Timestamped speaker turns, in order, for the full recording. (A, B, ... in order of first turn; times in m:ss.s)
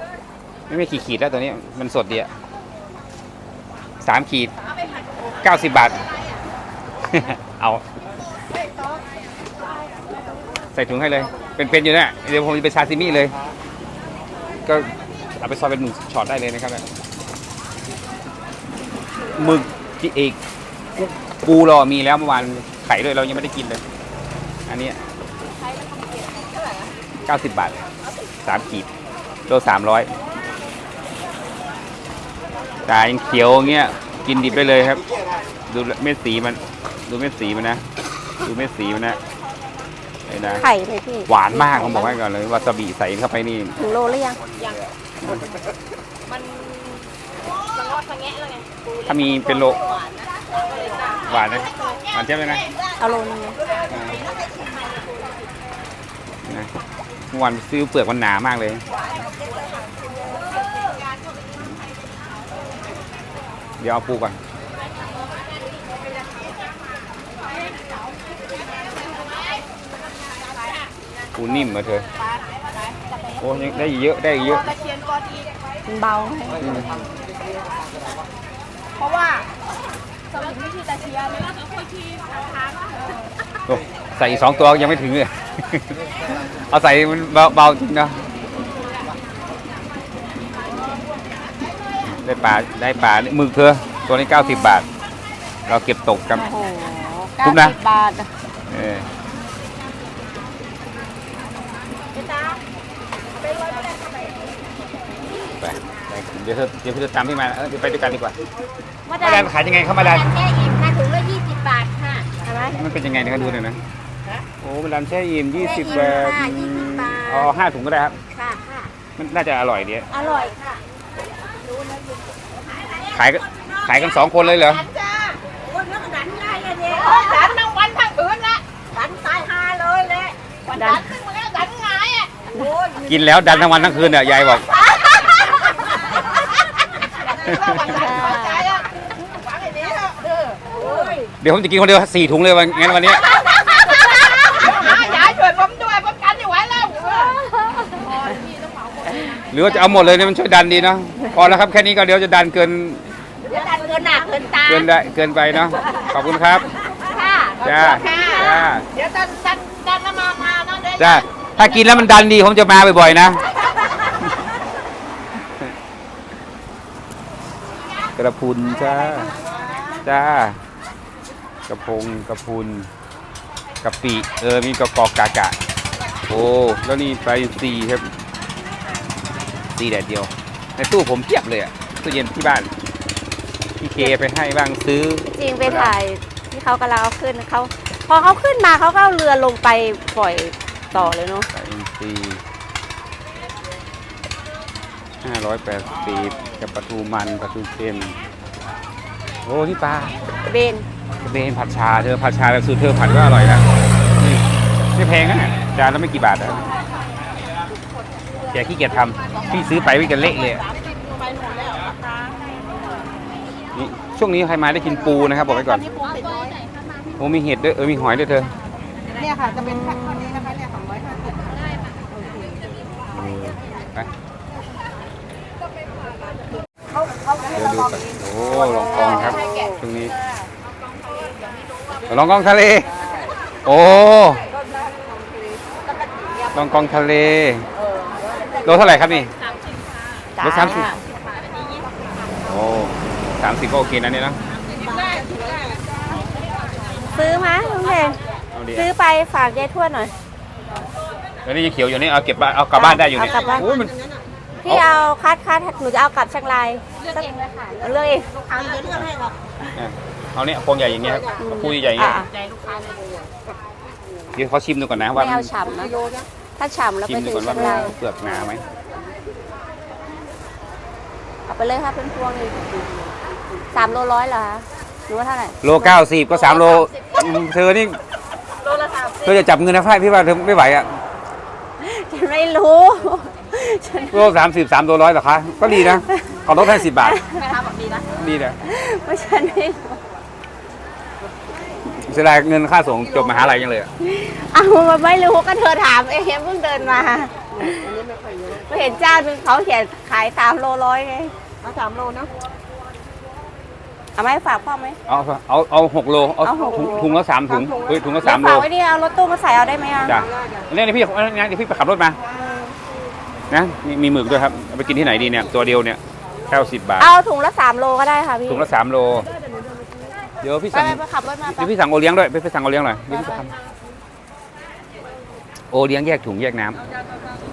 0:00.7-0:02.3 A
0:04.0-0:04.5 A
0:05.4-0:06.0 A
0:07.0-0:07.8 A
0:10.7-0:13.3 A
0:14.6-0:16.8 A
0:19.3-0:20.4 A
0:20.9-0:23.8 A
0:24.6-0:25.0 A
0:25.4-0:26.9 B
0:27.2-0:27.8 A
0:28.4-0:28.9 A
0:29.5-0:30.1 A
0:32.8-0:35.0 A
0:35.6-0:37.8 A
0:38.4-0:39.2 A
0:40.2-0:40.6 A
0:40.4-0:42.1 C
0:41.3-0:43.7 A
0:43.8-0:44.4 C
0:44.6-0:44.9 B
0:46.3-0:52.9 B
0:49.0-0:49.8 A
0:51.2-0:52.6 A
0:53.0-0:53.6 C
0:53.5-0:55.5 B
0:53.9-0:54.2 A
0:56.4-0:56.7 A
0:57.3-0:58.8 A
0:58.9-1:01.5 B
1:03.8-1:04.4 A
1:07.4-1:09.4 B
1:10.2-1:10.9 B
1:11.3-1:12.0 A
1:12.1-1:13.8 B
1:13.4-1:14.7 A
1:14.4-1:15.5 B
1:15.8-1:16.8 C
1:16.6-1:17.0 A
1:16.8-1:17.0 B
1:19.0-1:19.5 B
1:20.3-1:23.2 B
1:23.7-1:28.2 A
1:28.7-1:29.0 B
1:30.6-1:31.0 B
1:32.1-1:34.8 A
1:34.3-1:34.9 C
1:35.7-1:36.5 A
1:36.3-1:38.3 C
1:37.4-1:37.7 A
1:38.7-1:39.1 A
1:42.1-1:42.5 C
1:43.3-1:44.6 B
1:45.6-1:48.4 A
1:49.0-1:53.6 C
1:49.2-1:50.3 A
1:50.3-1:52.1 B
1:52.7-1:53.8 A
1:54.6-1:58.2 A
1:55.5-1:57.5 C
1:58.3-1:58.9 C
1:59.2-2:00.1 A
2:00.1-2:00.5 C
2:00.1-2:00.8 B
2:01.7-2:14.1 B
2:03.1-2:04.8 A
2:07.0-2:07.5 C
2:10.7-2:11.0 C
2:13.0-2:14.6 A
2:15.0-2:15.9 B
2:17.2-2:21.3 B
2:17.5-2:18.7 C
2:20.8-2:21.1 C
2:21.4-2:23.2 A
2:23.1-2:30.3 B
2:24.0-2:25.2 C
2:29.5-2:33.1 A
2:33.5-2:34.7 B
2:33.5-2:34.8 C
2:34.6-2:36.7 A
2:36.9-2:41.2 B
2:37.0-2:38.7 C
2:37.6-2:38.8 A
2:41.0-2:43.4 A
2:48.2-2:49.3 A
2:49.4-2:50.0 C
2:49.4-2:50.0 B
2:50.0-2:50.6 A
2:51.7-2:52.9 A
2:53.8-2:55.6 A
2:56.3-2:58.1 A
2:59.7-3:02.7 A
3:03.8-3:05.9 A
3:05.4-3:11.5 C
3:10.9-3:12.4 A
3:15.2-3:18.2 A
3:19.4-3:20.2 A
3:20.4-3:20.9 C
3:21.2-3:26.7 A
3:28.5-3:30.6 A
3:29.2-3:32.5 B
3:33.7-3:35.8 A
3:35.3-3:37.1 B
3:37.2-3:38.5 A
3:39.0-3:42.6 B
3:39.5-3:40.5 C
3:43.1-3:44.1 A
3:46.9-3:49.8 B
3:47.5-3:50.1 A
3:48.6-3:49.6 C
3:50.4-3:52.1 B
3:52.1-3:52.9 A
3:53.6-3:54.4 A
3:54.5-3:56.6 B
3:56.5-3:57.7 A
3:57.8-3:59.1 B
3:58.6-3:59.3 A
4:00.4-4:01.0 C
4:00.4-4:00.9 A
4:01.1-4:02.3 B
4:02.4-4:04.4 A
4:04.5-4:07.9 B
4:07.1-4:08.2 C
4:08.5-4:08.9 A
4:08.7-4:10.1 C
4:11.4-4:13.9 A
4:12.7-4:13.7 C
4:13.2-4:14.2 B
4:14.6-4:14.8 A
4:14.6-4:18.9 C
4:17.0-4:19.4 B
4:19.7-4:22.2 A
4:21.4-4:22.3 C
4:22.3-4:23.4 B
4:24.3-4:25.5 A
4:25.1-4:26.0 C
4:26.6-4:28.0 C
4:27.1-4:28.6 A
4:31.5-4:32.7 C
4:33.7-4:36.9 C
4:35.6-4:38.0 A
4:38.6-4:39.4 B
4:39.2-4:41.0 A
4:41.8-4:44.3 C
4:44.1-4:47.2 A
4:45.6-4:47.4 C
4:47.3-4:48.1 B
4:48.2-4:48.6 A
4:48.6-4:50.0 C
4:51.8-4:53.9 A
4:54.0-4:57.9 C
4:57.8-4:58.6 B
4:58.7-5:01.3 C
5:01.6-5:02.3 B
5:04.2-5:05.0 C
5:05.1-5:08.6 A
5:06.4-5:07.1 C
5:08.2-5:10.2 C
5:10.0-5:12.2 A
5:12.3-5:12.7 C
5:13.5-5:17.1 A
5:17.0-5:18.7 C
5:18.5-5:19.3 A
5:20.4-5:23.5 A
5:20.7-5:21.7 C
5:23.1-5:23.4 C
5:25.7-5:26.8 A